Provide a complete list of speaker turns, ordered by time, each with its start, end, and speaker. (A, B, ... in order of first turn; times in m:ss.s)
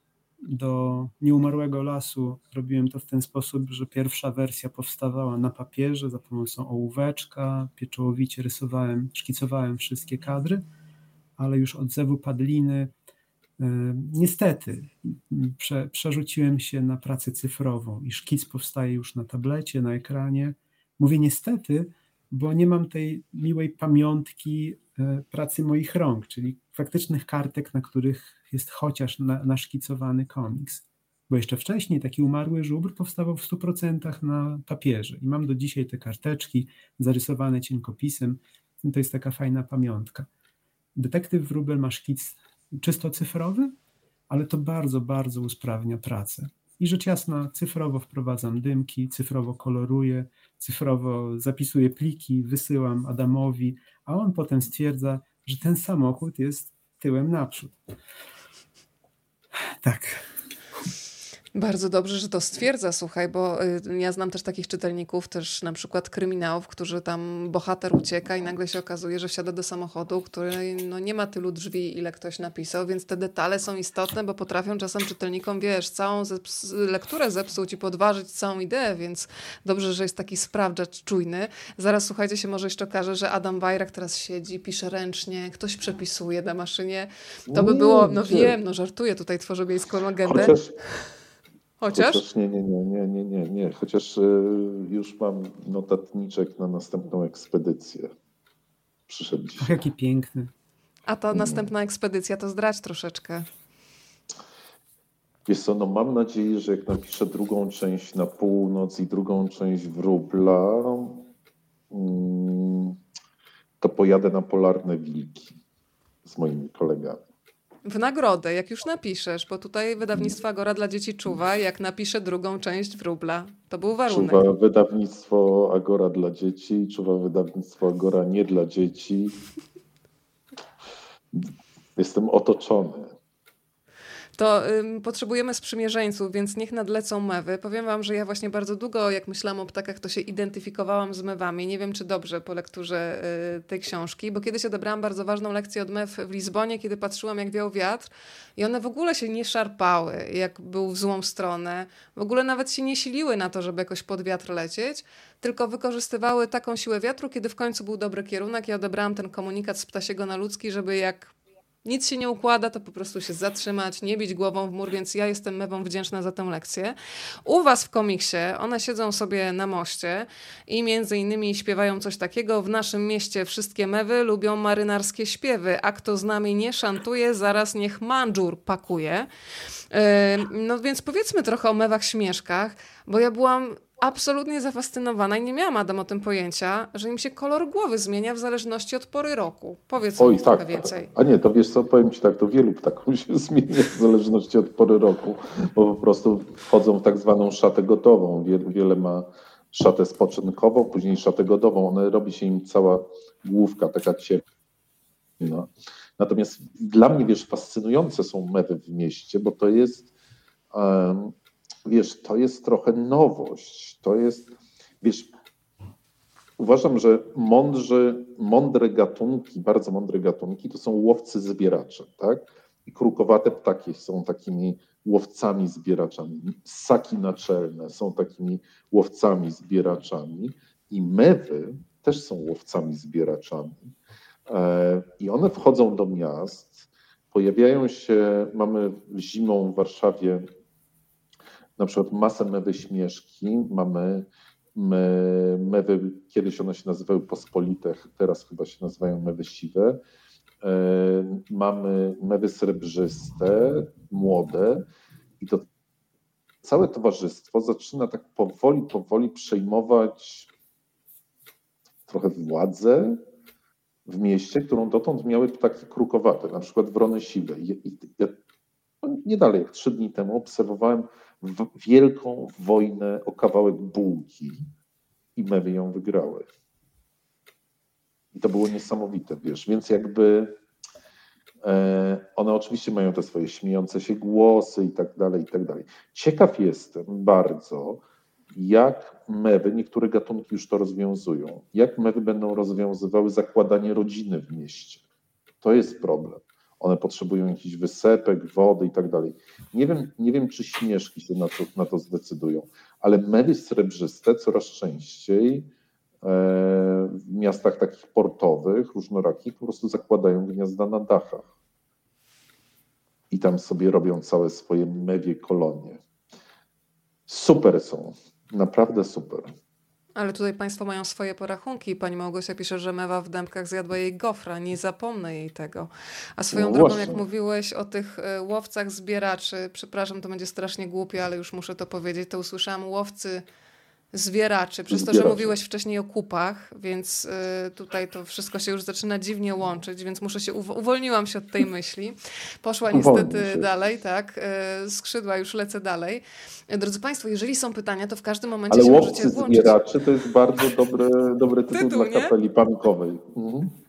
0:00.4-0:10.6 A
0:11.4-0:12.9 A
0:13.6-0:40.3 A
0:40.9-0:43.8 A
0:44.3-0:57.8 A
0:59.8-1:00.2 A
1:01.5-1:30.6 B
1:27.5-1:28.5 C
1:30.2-1:30.7 C
1:31.8-1:32.2 B
1:31.9-1:38.1 C
1:39.1-1:39.8 C
1:39.6-1:40.5 A
1:41.1-1:43.4 B
1:41.3-1:41.7 C
1:45.5-1:51.2 C
1:51.9-1:53.0 C
1:53.8-1:55.5 C
1:56.2-1:57.2 C
1:57.8-2:04.5 B
2:04.1-2:09.4 C
2:11.3-2:13.1 C
2:14.4-2:59.3 B
2:59.9-3:11.1 B
3:10.2-3:24.4 C
3:25.4-3:30.1 C
3:30.7-3:31.3 C
3:31.8-3:35.3 C
3:36.6-3:53.9 C
3:54.5-4:00.4 C
4:01.8-4:10.0 C
4:10.6-4:14.8 C
4:15.4-4:15.6 C
4:16.6-4:20.5 C
4:22.1-4:23.2 C
4:24.0-4:28.4 C
4:29.0-4:34.6 C
4:35.4-4:36.5 C
4:38.3-4:40.6 C
4:41.6-4:48.0 C
4:48.5-4:55.0 C
4:55.6-5:05.7 C
5:06.2-5:11.5 C
5:13.3-5:16.0 C
5:17.3-5:19.5 C
5:20.2-5:33.4 B
5:26.5-5:27.2 C
5:34.1-5:49.8 B
5:34.9-5:35.6 C
5:42.9-5:43.7 C
5:48.7-5:53.7 C
5:51.7-5:52.3 B